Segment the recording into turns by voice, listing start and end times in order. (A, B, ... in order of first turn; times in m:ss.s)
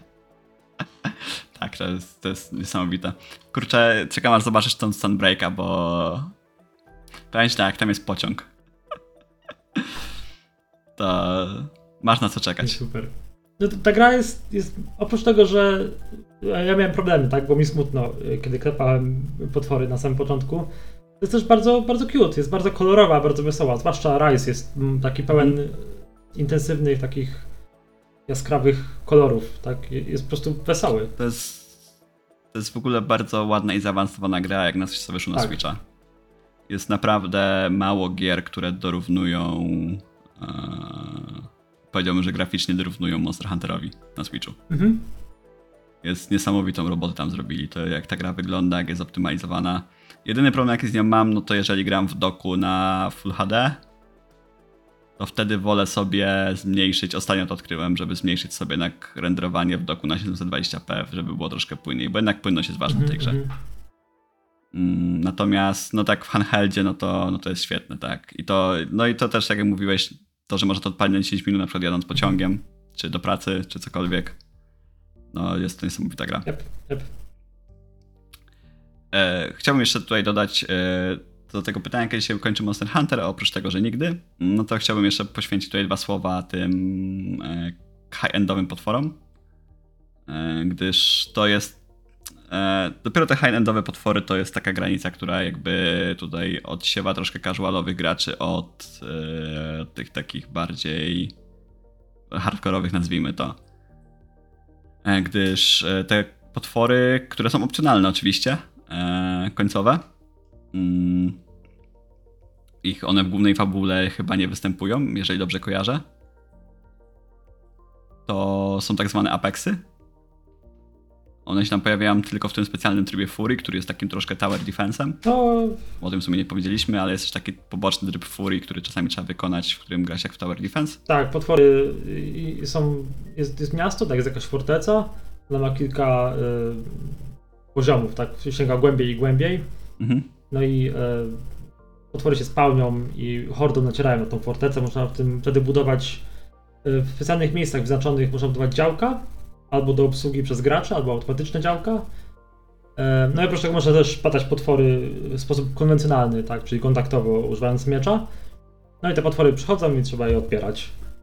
0:01.1-0:06.3 A
0:07.3-0:08.5 A
0:11.0-0:12.8 A
0:12.6-0:27.5 B
0:28.3-0:31.1 B
0:31.2-0:31.8 A
0:32.5-0:35.8 A
0:36.7-0:44.6 A
0:44.7-0:45.0 B
0:46.0-0:53.8 A
0:55.2-1:03.4 A
1:02.9-1:03.5 B
1:04.7-1:14.4 A
1:15.3-1:16.5 A
1:16.5-1:17.1 B
1:19.1-1:29.2 A
1:30.3-1:31.8 A
1:32.5-1:41.3 A
1:42.3-1:43.6 A
1:45.0-1:50.0 A
1:50.7-1:51.4 A
1:52.8-1:56.0 A
1:58.3-1:59.8 A
2:01.5-2:05.2 A
2:05.2-2:05.8 B
2:06.0-2:11.0 A
2:11.1-2:17.2 B
2:17.7-2:19.7 B
2:20.0-2:20.3 A
2:20.5-2:21.4 B
2:22.1-2:26.2 B
2:26.8-2:32.1 B
2:33.0-2:38.3 B
2:39.0-2:40.9 B